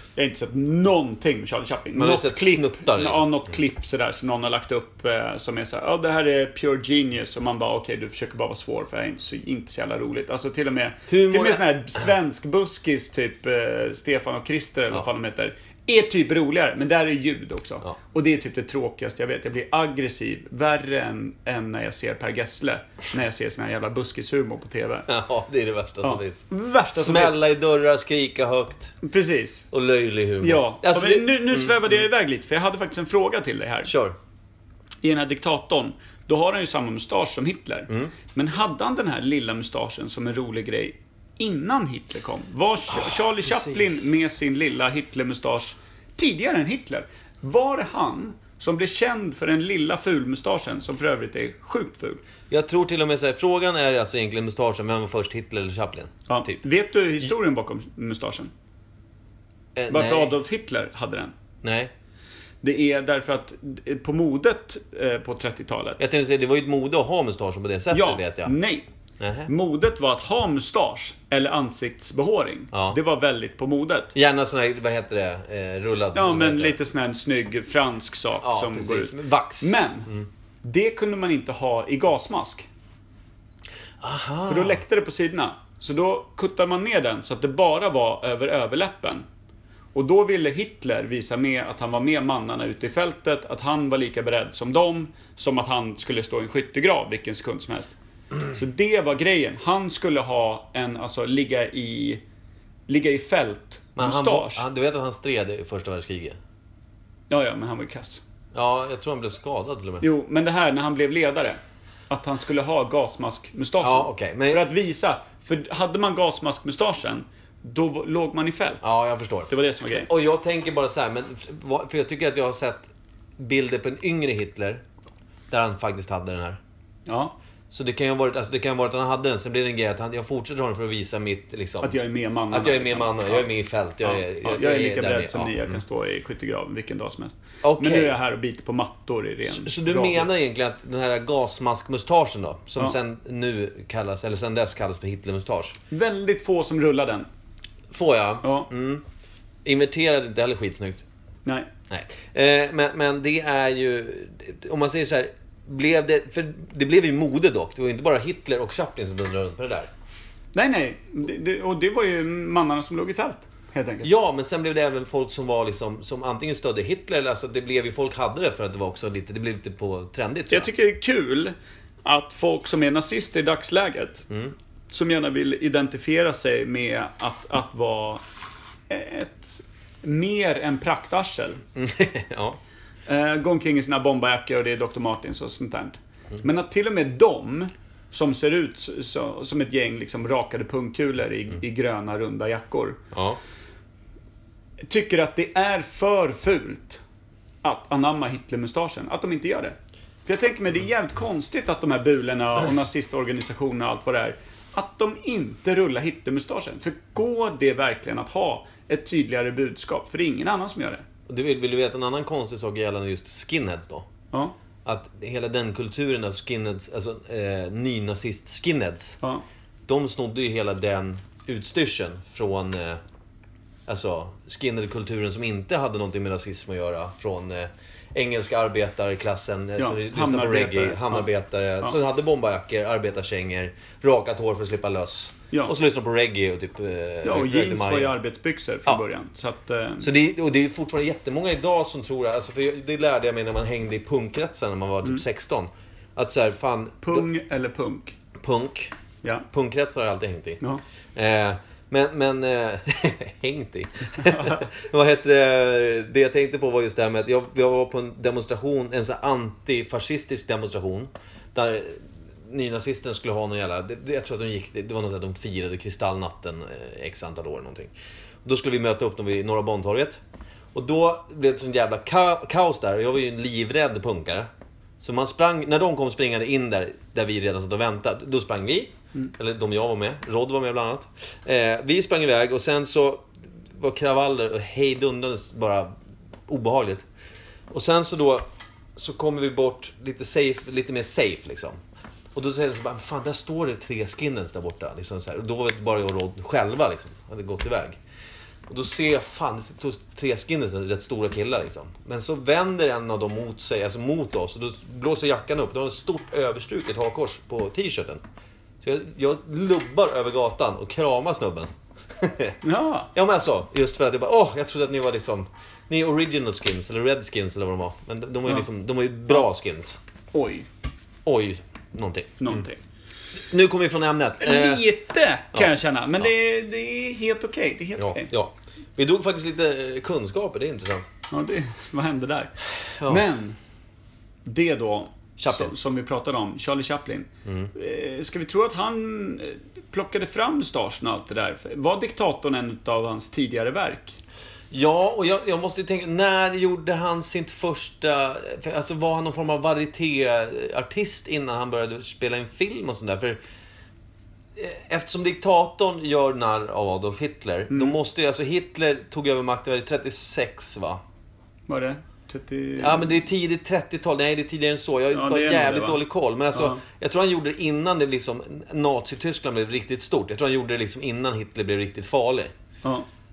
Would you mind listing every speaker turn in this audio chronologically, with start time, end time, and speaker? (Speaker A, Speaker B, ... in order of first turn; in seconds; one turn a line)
Speaker A: 0.2-25.1
Speaker B: 1.9-3.5
Speaker B: 11.1-12.1
Speaker B: 25.1-29.0
Speaker A: 26.0-27.4
Speaker A: 29.0-29.7
Speaker B: 29.7-31.8
Speaker A: 30.4-33.9
Speaker B: 33.9-34.2
Speaker A: 35.0-52.2
Speaker B: 37.9-38.1
Speaker B: 42.9-44.1
Speaker B: 52.5-56.6
Speaker A: 56.3-58.5
Speaker B: 59.8-60.3
Speaker A: 59.9-61.4
Speaker B: 61.6-61.9
Speaker A: 62.6-66.0
Speaker B: 66.0-68.5
Speaker A: 67.9-68.9
Speaker B: 69.2-69.5
Speaker A: 69.5-74.2
Speaker B: 72.7-73.0
Speaker B: 74.1-76.8
Speaker A: 76.2-80.1
Speaker B: 78.4-80.3
Speaker A: 80.6-82.7
Speaker B: 84.0-84.8
Speaker A: 84.5-89.3
Speaker A: 89.9-98.0
Speaker A: 98.5-102.2
Speaker A: 102.9-104.7
Speaker B: 104.0-106.4
Speaker A: 107.3-108.2
Speaker B: 108.5-110.1
Speaker A: 110.0-118.9
Speaker B: 113.8-114.7
Speaker B: 118.8-124.8
Speaker A: 119.5-120.1
Speaker B: 125.5-126.6
Speaker A: 127.1-127.3
Speaker B: 127.7-135.8
Speaker A: 131.8-133.5
Speaker A: 134.0-140.4
Speaker B: 137.6-138.2
Speaker B: 139.5-145.8
Speaker A: 145.9-147.3
Speaker B: 147.9-149.0
Speaker A: 148.4-148.7
Speaker B: 149.7-151.1
Speaker B: 151.9-159.9
Speaker A: 160.5-164.1
Speaker B: 164.0-170.7
Speaker A: 170.5-174.3
Speaker B: 174.3-174.6
Speaker A: 174.9-178.2
Speaker A: 178.9-181.6
Speaker B: 181.8-182.6
Speaker A: 183.1-193.0
Speaker B: 193.1-193.4
Speaker A: 194.8-197.0
Speaker A: 197.6-211.0
Speaker B: 211.3-214.1
Speaker B: 214.8-219.2
Speaker B: 219.9-223.0
Speaker B: 223.9-238.2
Speaker A: 229.8-231.3
Speaker A: 237.2-240.1
Speaker B: 240.0-247.3
Speaker A: 247.0-248.2
Speaker B: 248.4-248.9
Speaker B: 249.5-250.6
Speaker B: 251.2-267.9
Speaker B: 268.4-270.2
Speaker B: 270.7-274.5
Speaker B: 275.0-285.9
Speaker B: 286.5-287.1
Speaker B: 287.7-291.8
Speaker B: 292.4-298.0
Speaker B: 298.7-308.2
Speaker B: 308.8-312.6
Speaker A: 312.6-313.1
Speaker B: 313.1-320.0
Speaker A: 320.3-320.7
Speaker B: 321.2-322.7
Speaker A: 322.4-322.8
Speaker B: 323.5-324.9
Speaker A: 324.4-328.3
Speaker B: 328.0-331.1
Speaker A: 331.3-332.5
Speaker B: 333.0-333.3
Speaker A: 333.1-333.6
Speaker A: 334.4-344.2
Speaker B: 335.4-335.8
Speaker B: 337.4-337.7
Speaker B: 344.7-353.4
Speaker B: 354.6-361.0
Speaker A: 357.7-358.0
Speaker A: 361.7-363.2
Speaker B: 362.8-372.5
Speaker A: 365.1-366.0
Speaker A: 366.5-366.8